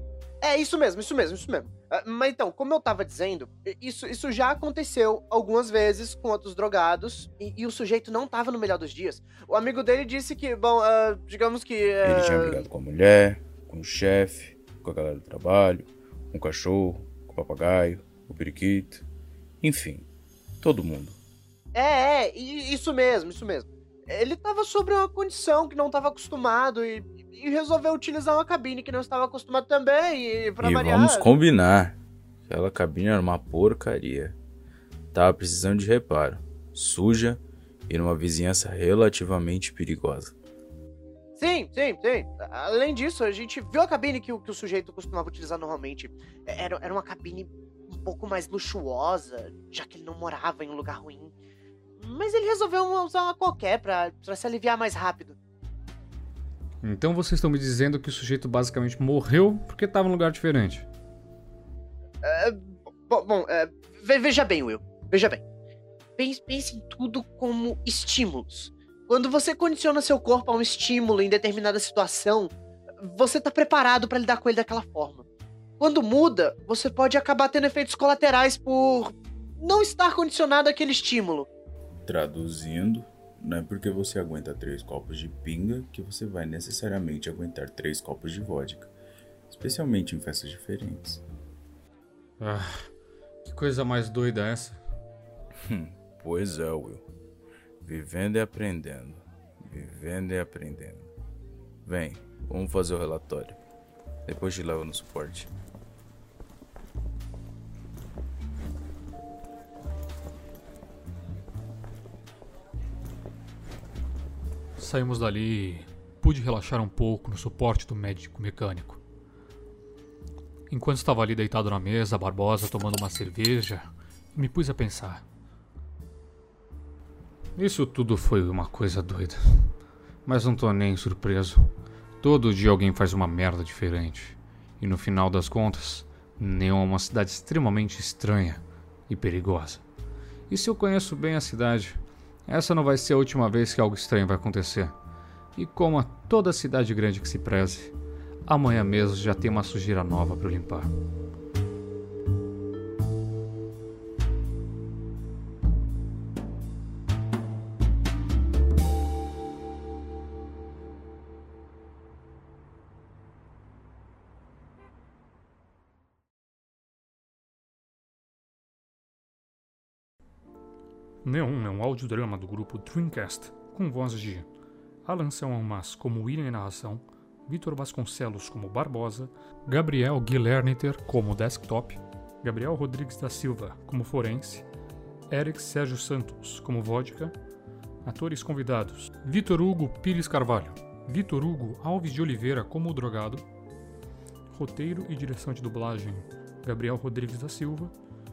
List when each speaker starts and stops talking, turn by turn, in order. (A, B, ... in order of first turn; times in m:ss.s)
0:00.4-0:12.7 A
0:12.0-0:19.0 B
0:19.6-0:20.1 B
0:20.6-0:21.2 B
0:21.7-0:31.2 A
0:30.6-0:32.0 B
0:32.5-0:34.4 B
0:35.1-0:40.3 B
0:41.4-0:51.3 A
0:52.0-0:55.4 A
0:56.8-1:00.9 C
1:02.2-1:05.4 A
1:06.2-1:15.2 A
1:15.8-1:21.5 A
1:22.1-1:28.9 B
1:29.5-1:31.2 B
1:32.4-1:32.9 C
1:33.4-1:34.8 C
1:35.6-1:37.0 B
1:37.8-1:41.1 B
1:41.8-1:43.6 B
1:44.2-1:45.5 B
1:54.8-1:59.0 C
2:00.7-2:05.2 C
2:07.6-2:09.7 C
2:10.2-2:11.7 C
2:12.2-2:19.8 C
2:20.5-2:24.9 C
2:25.6-2:27.9 C
2:28.5-2:30.9 C
2:51.2-2:54.5 C
2:55.0-3:04.6 C
3:05.3-3:07.3 C
3:08.0-3:13.4 C
3:14.5-3:17.9 C